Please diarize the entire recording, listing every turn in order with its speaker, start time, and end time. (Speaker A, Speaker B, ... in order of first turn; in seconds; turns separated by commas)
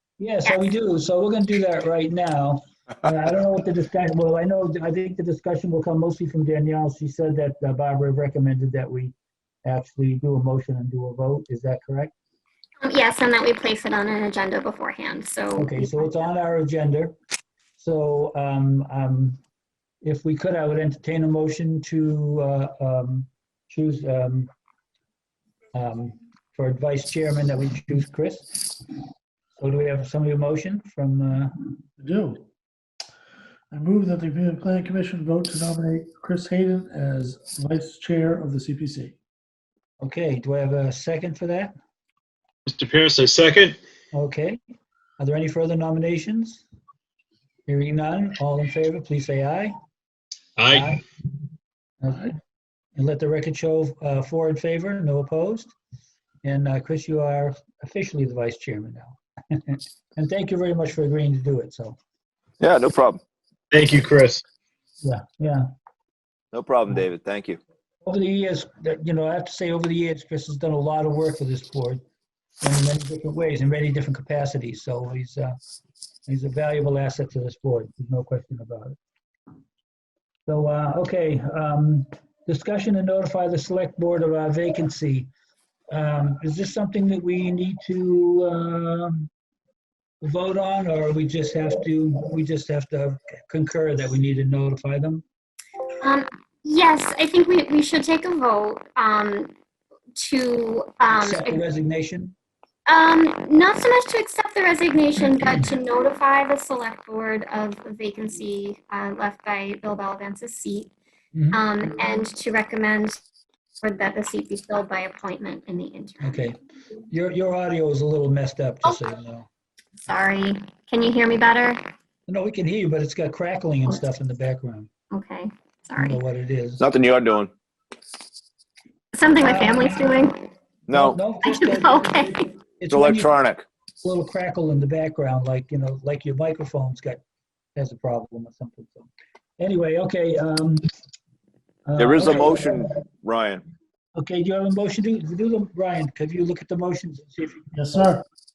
Speaker A: 0.2-9.1, Speaker A: 9.6-12.1, Speaker B: 12.8-16.1, Speaker A: 15.6-17.1, Speaker A: 17.8-19.4, Speaker A: 20.0-24.5, Speaker A: 25.7-28.8, Speaker A: 29.6-31.6, Speaker C: 32.0-32.4, Speaker C: 33.7-39.1, Speaker A: 40.0-41.7, Speaker D: 42.7-43.8, Speaker A: 44.1-44.6, Speaker A: 45.2-46.6, Speaker A: 47.7-49.7, Speaker D: 50.6-50.9, Speaker A: 50.7-51.0, Speaker A: 52.0-52.3, Speaker A: 53.0-55.7, Speaker A: 56.4-62.0, Speaker E: 62.6-63.2, Speaker D: 63.7-64.4, Speaker A: 65.0-65.7, Speaker E: 66.5-67.6, Speaker A: 68.0-72.0, Speaker A: 72.6-75.5, Speaker A: 76.3-79.0, Speaker A: 80.5-85.3, Speaker A: 85.9-89.3, Speaker A: 90.2-95.2, Speaker B: 96.0-99.5, Speaker B: 100.2-101.6, Speaker A: 101.2-102.3, Speaker B: 102.9-110.9, Speaker A: 111.3-111.6, Speaker B: 111.5-113.2, Speaker B: 113.8-116.4, Speaker A: 116.2-116.6, Speaker A: 117.1-119.5, Speaker B: 120.1-121.8, Speaker A: 122.3-124.9, Speaker B: 125.1-126.2, Speaker A: 126.0-126.8, Speaker E: 126.8-127.5, Speaker B: 129.1-130.3, Speaker A: 129.4-130.2, Speaker E: 130.9-131.2, Speaker A: 130.9-133.3, Speaker B: 131.4-132.4, Speaker E: 132.9-133.6, Speaker A: 134.0-137.2, Speaker A: 137.8-140.8, Speaker A: 141.8-143.0, Speaker E: 142.0-143.6, Speaker A: 144.1-148.1, Speaker C: 147.7-148.2